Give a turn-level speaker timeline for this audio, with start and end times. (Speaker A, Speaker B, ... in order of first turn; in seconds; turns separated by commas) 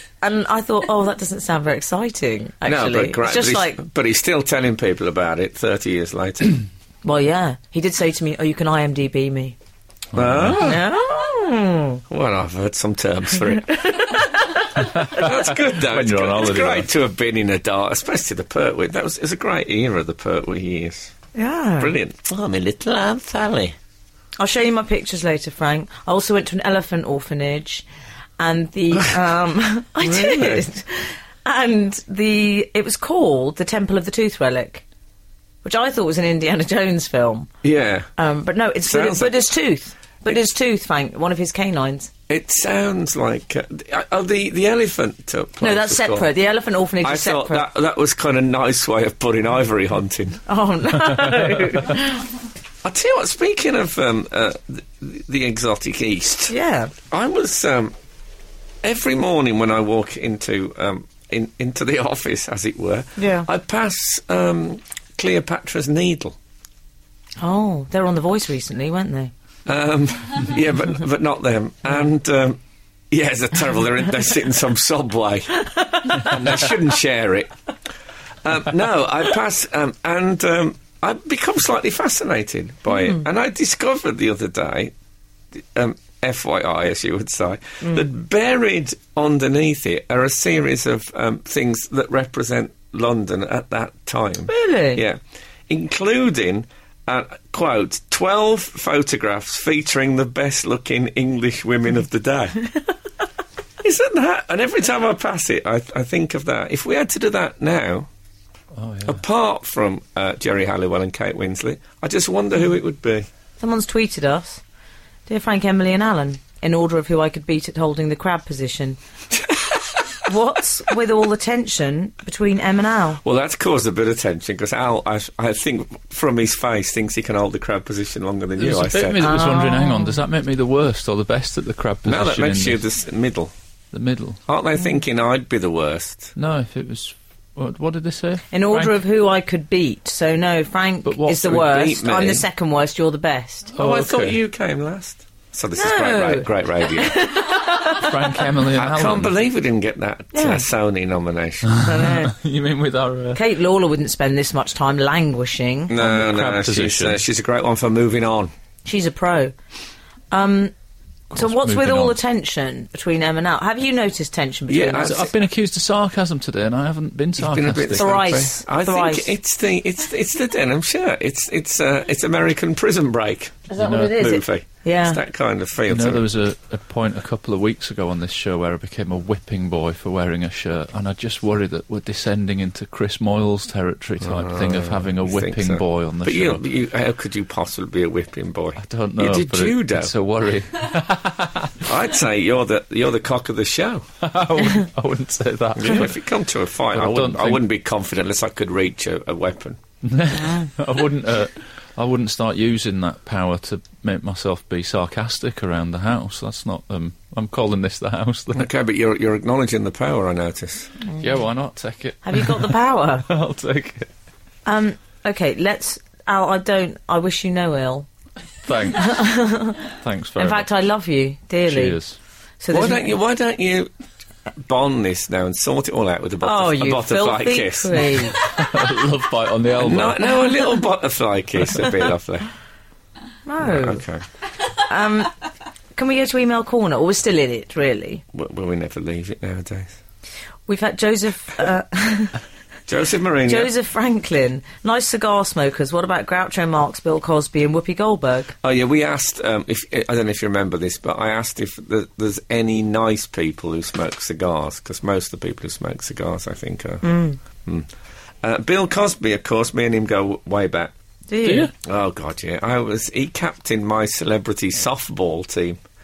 Speaker A: 0.2-3.8, Speaker B: 2.6-6.6, Speaker A: 7.0-9.6, Speaker C: 10.1-10.7, Speaker B: 10.1-10.8, Speaker A: 10.6-12.0, Speaker B: 12.1-14.0, Speaker A: 13.6-15.1, Speaker C: 14.8-16.9, Speaker B: 15.1-21.1, Speaker A: 21.3-21.9, Speaker B: 21.8-23.8, Speaker A: 24.4-27.8, Speaker A: 28.4-34.8, Speaker B: 30.0-30.6, Speaker A: 35.6-37.5, Speaker B: 37.6-38.1, Speaker A: 38.2-42.1, Speaker B: 38.9-39.4, Speaker B: 42.3-46.3, Speaker A: 45.6-47.6, Speaker B: 47.0-50.4, Speaker A: 50.5-52.2, Speaker B: 52.8-56.5, Speaker A: 56.5-56.9, Speaker B: 57.1-57.9, Speaker B: 58.8-66.3, Speaker A: 63.2-63.5, Speaker A: 67.4-69.3, Speaker B: 69.7-72.6, Speaker B: 73.1-77.5, Speaker B: 78.4-84.9, Speaker B: 85.5-102.6, Speaker A: 94.5-95.0, Speaker B: 103.8-108.1, Speaker C: 108.7-109.2, Speaker B: 109.0-113.3, Speaker A: 113.6-114.6, Speaker A: 115.3-119.0, Speaker B: 119.5-119.8, Speaker A: 120.2-123.2, Speaker B: 123.2-129.3, Speaker C: 128.6-132.8, Speaker A: 129.2-130.2, Speaker B: 132.0-133.5, Speaker C: 133.9-134.4, Speaker B: 134.5-136.3, Speaker C: 136.3-138.9, Speaker A: 138.5-143.7, Speaker C: 141.0-141.6, Speaker B: 141.4-142.4, Speaker C: 143.7-144.4, Speaker B: 143.8-147.3, Speaker A: 145.8-148.2, Speaker C: 147.9-149.3, Speaker B: 148.7-151.8, Speaker A: 150.3-150.7, Speaker C: 151.7-153.4, Speaker A: 151.8-152.3, Speaker A: 153.3-155.9, Speaker B: 155.9-158.5, Speaker C: 156.0-157.2, Speaker A: 158.8-159.5, Speaker A: 160.3-160.7, Speaker A: 161.3-165.3, Speaker C: 161.3-162.2, Speaker B: 164.7-165.3, Speaker C: 165.0-168.1, Speaker B: 167.4-176.2, Speaker A: 167.9-169.3, Speaker A: 173.7-175.2, Speaker C: 173.8-174.3, Speaker C: 175.9-186.6, Speaker B: 184.2-190.1, Speaker C: 188.8-191.8, Speaker B: 191.8-194.1, Speaker C: 194.2-196.2, Speaker B: 195.8-199.8, Speaker C: 196.9-197.6, Speaker C: 200.0-208.7, Speaker B: 208.5-210.9, Speaker C: 211.2-214.1, Speaker A: 212.2-213.3, Speaker A: 214.7-218.1, Speaker C: 218.6-219.2, Speaker A: 219.0-219.8, Speaker C: 219.8-220.7, Speaker A: 220.4-222.0, Speaker C: 221.7-222.2, Speaker A: 222.6-223.1, Speaker B: 222.7-223.9, Speaker B: 224.6-228.2, Speaker A: 226.4-228.3, Speaker C: 228.4-230.4, Speaker B: 229.8-232.5, Speaker A: 233.4-234.0, Speaker B: 233.6-234.2, Speaker A: 234.8-235.3, Speaker A: 235.9-238.2, Speaker B: 238.3-239.9, Speaker A: 240.7-242.4, Speaker B: 242.9-243.7, Speaker A: 243.4-248.5, Speaker B: 248.6-257.0, Speaker A: 257.0-257.4, Speaker B: 257.6-257.9, Speaker B: 258.4-260.9, Speaker A: 261.3-261.7, Speaker C: 261.4-261.7, Speaker B: 261.8-265.8